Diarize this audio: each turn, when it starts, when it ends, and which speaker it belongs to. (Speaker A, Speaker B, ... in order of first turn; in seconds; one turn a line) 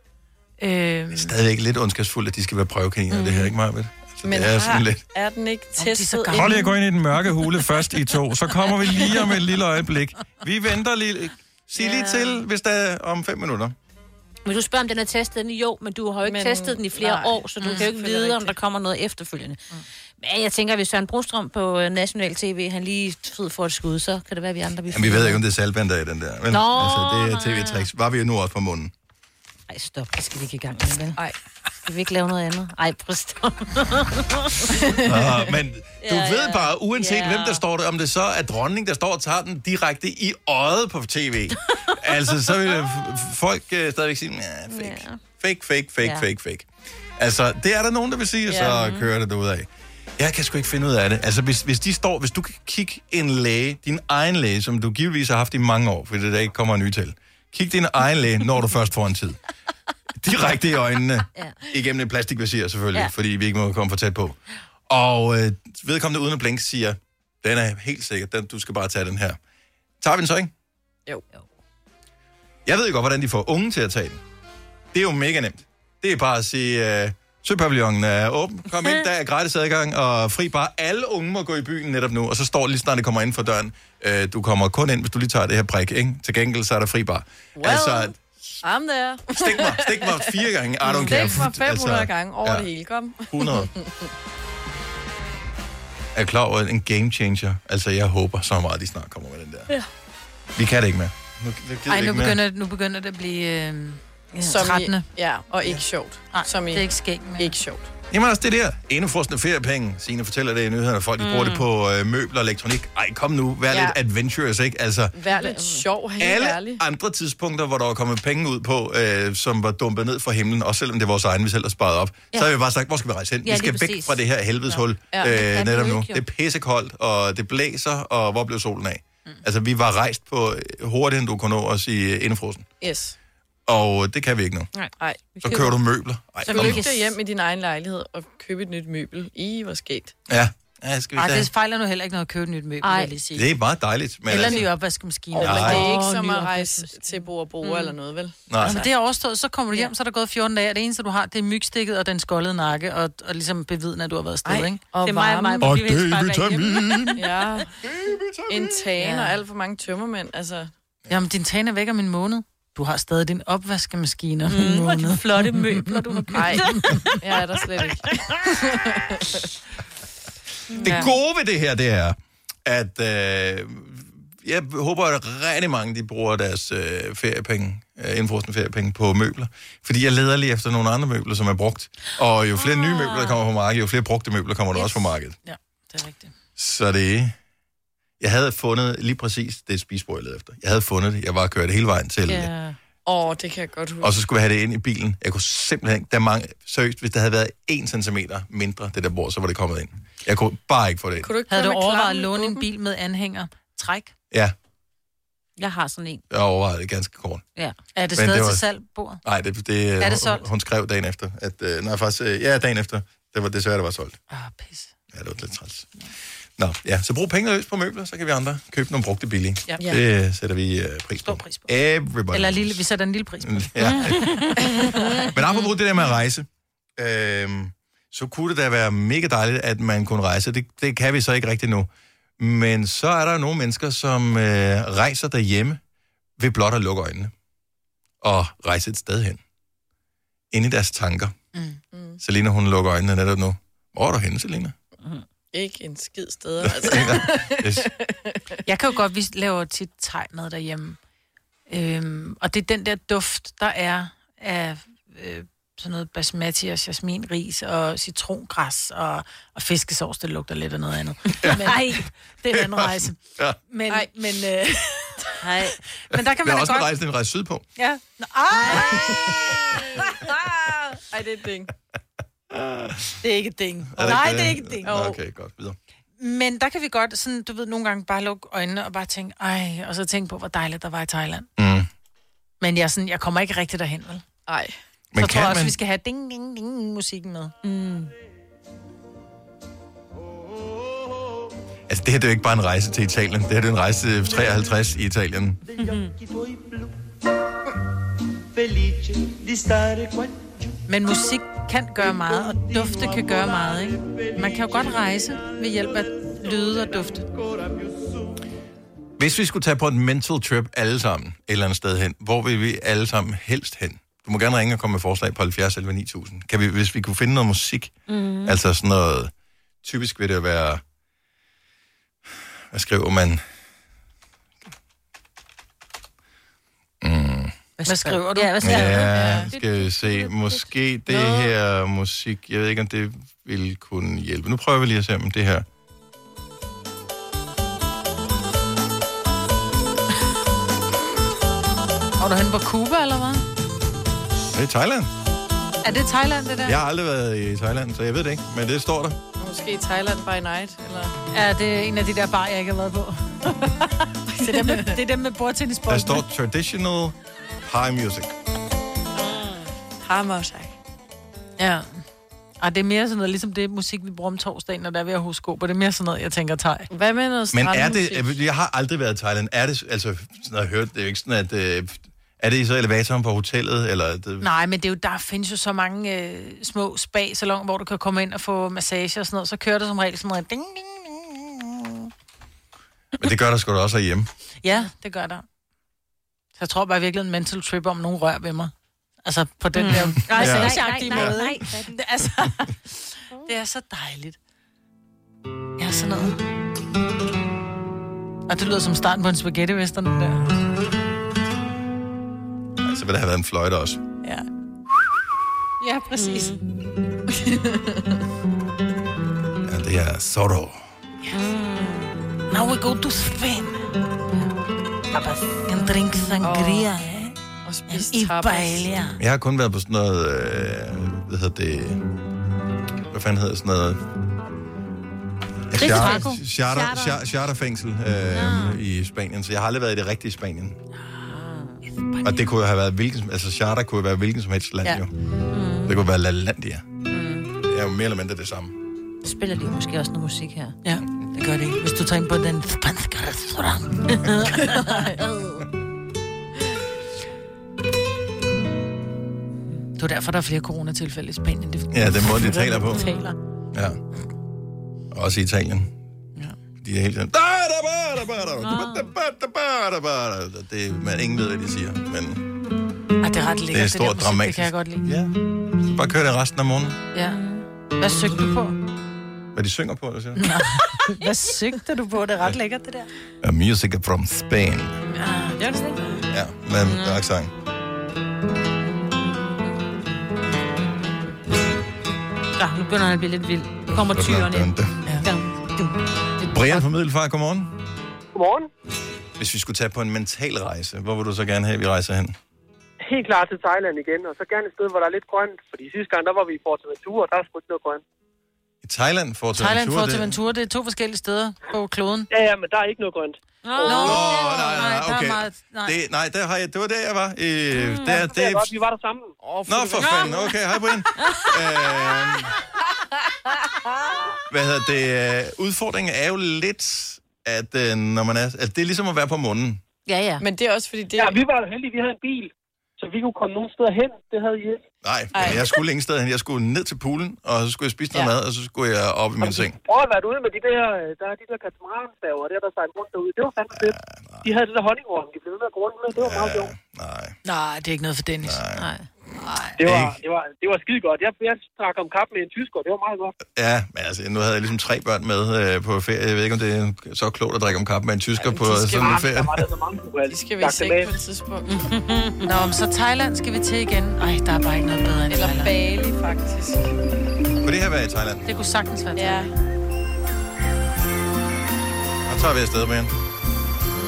Speaker A: 0.6-1.3
Speaker B: 1.1-5.0
Speaker C: 3.1-3.5
Speaker D: 4.2-6.7
Speaker A: 5.8-6.7
Speaker B: 6.3-13.7
Speaker C: 11.8-12.3
Speaker C: 14.4-19.6
Speaker D: 16.2-18.6
Speaker A: 17.6-17.9
Speaker C: 20.2-25.4
Speaker B: 24.9-28.9
Speaker C: 26.7-27.8
Speaker C: 29.7-31.2
Speaker C: 31.8-34.7
Speaker D: 34.7-35.5
Speaker B: 35.0-59.4
Speaker C: 36.0-37.6
Speaker C: 44.7-45.1
Speaker D: 48.5-48.8
Speaker B: 60.2-64.4
Speaker B: 64.9-69.4
Speaker B: 70.0-70.5
Speaker B: 72.7-74.2
Speaker B: 74.9-88.6
Speaker D: 87.6-94.1
Speaker B: 89.3-92.7
Speaker B: 93.3-93.7
Speaker B: 96.1-99.7
Speaker B: 100.5-102.4
Speaker A: 101.9-105.0
Speaker D: 104.3-107.9
Speaker A: 106.3-107.5
Speaker B: 108.1-115.2
Speaker C: 111.2-111.6
Speaker D: 113.7-114.0
Speaker D: 115.1-116.8
Speaker B: 116.2-132.7
Speaker C: 123.6-124.0
Speaker D: 125.1-125.4
Speaker C: 125.4-126.2
Speaker D: 132.8-133.2
Speaker B: 133.7-134.7
Speaker D: 135.0-135.4
Speaker B: 135.4-137.2
Speaker C: 135.4-135.7
Speaker D: 136.4-140.1
Speaker B: 140.3-141.5
Speaker A: 141.2-143.4
Speaker C: 142.8-143.1
Speaker B: 143.3-144.7
Speaker A: 144.3-146.8
Speaker B: 145.3-146.0
Speaker D: 145.3-148.8
Speaker C: 145.8-146.6
Speaker C: 147.6-147.9
Speaker B: 148.5-148.8
Speaker A: 148.6-154.8
Speaker D: 154.4-155.8
Speaker C: 155.1-156.9
Speaker B: 155.6-157.2
Speaker D: 157.1-157.7
Speaker B: 157.8-158.9
Speaker D: 158.5-160.7
Speaker A: 161.1-167.2
Speaker C: 164.5-167.2
Speaker D: 166.3-169.5
Speaker B: 170.7-185.4
Speaker C: 182.6-183.3
Speaker A: 185.4-186.3
Speaker B: 186.6-187.3
Speaker B: 188.2-192.5
Speaker C: 192.3-192.8
Speaker D: 193.0-194.1
Speaker B: 194.0-201.3
Speaker D: 201.2-202.6
Speaker A: 201.5-204.1
Speaker C: 205.6-206.2
Speaker B: 206.3-207.4
Speaker A: 207.9-209.2
Speaker B: 208.1-208.6
Speaker B: 209.2-214.2
Speaker A: 210.0-210.4
Speaker A: 214.3-214.9
Speaker B: 215.1-215.9
Speaker B: 216.6-222.8
Speaker A: 221.2-221.7
Speaker A: 222.3-225.2
Speaker B: 223.4-224.6
Speaker C: 223.9-224.5
Speaker D: 224.7-225.3
Speaker B: 225.2-235.8
Speaker B: 236.4-237.3
Speaker B: 238.2-239.4
Speaker B: 240.5-241.3
Speaker A: 241.5-241.8
Speaker D: 241.9-242.2
Speaker B: 242.2-244.7
Speaker D: 245.5-248.6
Speaker B: 246.6-247.9
Speaker A: 248.7-251.0
Speaker A: 251.7-263.2
Speaker B: 261.4-261.9
Speaker B: 262.5-263.6
Speaker A: 263.7-264.8
Speaker D: 263.9-265.3
Speaker A: 265.4-266.9
Speaker B: 266.4-267.6
Speaker A: 267.8-269.3
Speaker D: 268.6-271.7
Speaker B: 272.5-273.2
Speaker A: 273.2-274.9
Speaker B: 273.9-275.8
Speaker D: 274.8-275.2
Speaker A: 276.2-281.5
Speaker B: 281.6-281.9
Speaker A: 282.6-284.2
Speaker D: 284.5-284.7
Speaker B: 285.1-285.8
Speaker A: 285.2-287.5
Speaker C: 287.6-288.1
Speaker B: 291.9-295.7
Speaker C: 295.8-296.1
Speaker A: 300.9-307.3
Speaker B: 309.2-319.3
Speaker C: 318.1-318.6
Speaker B: 319.8-320.8
Speaker B: 322.7-323.4
Speaker B: 327.0-327.6
Speaker A: 327.8-329.1
Speaker C: 327.8-330.7
Speaker B: 328.6-335.6
Speaker D: 329.1-329.5
Speaker D: 331.1-331.5
Speaker A: 342.2-343.4
Speaker B: 344.5-345.1
Speaker A: 345.8-346.8
Speaker B: 346.6-349.2
Speaker D: 349.4-351.1
Speaker A: 351.3-356.2
Speaker D: 354.3-355.0
Speaker B: 355.9-358.3
Speaker D: 360.0-360.7
Speaker A: 361.6-361.9
Speaker A: 362.6-366.9
Speaker D: 366.9-368.3
Speaker B: 367.5-374.5
Speaker A: 374.4-382.1
Speaker B: 383.2-384.3
Speaker A: 384.6-385.4
Speaker A: 386.6-388.7
Speaker A: 389.2-394.4
Speaker C: 389.8-391.9
Speaker B: 390.4-391.5
Speaker A: 395.8-396.4
Speaker A: 398.5-400.5
Speaker B: 402.8-404.0
Speaker A: 405.8-406.6
Speaker C: 406.2-406.6
Speaker D: 407.3-408.2
Speaker B: 409.6-410.7
Speaker C: 411.4-412.1
Speaker A: 412.5-413.9
Speaker A: 415.1-417.4
Speaker D: 416.4-416.9
Speaker D: 417.6-418.9
Speaker A: 417.9-419.2
Speaker B: 419.2-422.0
Speaker B: 423.1-424.0
Speaker B: 425.7-430.8
Speaker A: 425.8-426.4
Speaker C: 425.8-427.2
Speaker C: 428.3-428.8
Speaker C: 431.4-431.7
Speaker A: 432.0-432.3
Speaker B: 432.2-435.1
Speaker C: 435.5-435.9
Speaker B: 435.8-436.9
Speaker C: 437.1-437.5
Speaker B: 437.6-438.7
Speaker C: 439.2-440.7
Speaker A: 440.8-445.1
Speaker C: 444.2-445.6
Speaker A: 450.0-453.4
Speaker B: 451.9-453.0
Speaker B: 453.7-454.0
Speaker B: 455.1-455.9
Speaker B: 456.8-462.4
Speaker C: 458.6-459.0
Speaker A: 463.2-465.1
Speaker B: 463.7-467.0
Speaker A: 467.1-467.4
Speaker C: 467.4-467.6
Speaker A: 468.0-468.8
Speaker B: 469.5-470.5
Speaker A: 470.4-473.1
Speaker B: 473.4-475.0
Speaker A: 475.1-475.6
Speaker C: 475.6-475.9
Speaker B: 476.3-477.5
Speaker C: 476.9-477.2
Speaker C: 482.6-484.7
Speaker B: 483.9-484.9
Speaker C: 485.2-485.9
Speaker B: 486.5-487.7
Speaker E: 488.3-488.7
Speaker B: 489.4-492.4
Speaker E: 493.0-498.0
Speaker B: 498.8-500.4
Speaker A: 499.6-502.3
Speaker E: 502.3-504.0
Speaker C: 503.6-504.4
Speaker A: 503.8-506.0
Speaker B: 503.9-508.7
Speaker E: 508.1-509.3
Speaker D: 509.4-510.6
Speaker B: 509.7-512.5
Speaker C: 510.0-510.3
Speaker B: 514.5-519.8
Speaker C: 520.1-520.4
Speaker D: 520.4-521.4
Speaker E: 521.1-524.8
Speaker B: 525.0-529.8
Speaker D: 525.3-525.8
Speaker E: 529.4-536.7
Speaker B: 533.8-534.5
Speaker B: 536.1-537.4
Speaker A: 537.4-538.6
Speaker B: 538.4-538.9
Speaker C: 538.8-539.0
Speaker A: 539.4-539.7
Speaker E: 539.8-543.3
Speaker B: 539.8-540.2
Speaker B: 543.5-549.7
Speaker D: 548.4-549.3
Speaker E: 549.0-551.2
Speaker D: 550.3-551.7
Speaker C: 551.8-552.5
Speaker A: 552.4-555.7
Speaker D: 555.3-556.9
Speaker B: 557.6-558.4
Speaker A: 558.4-559.5
Speaker D: 559.1-559.5
Speaker B: 562.2-563.1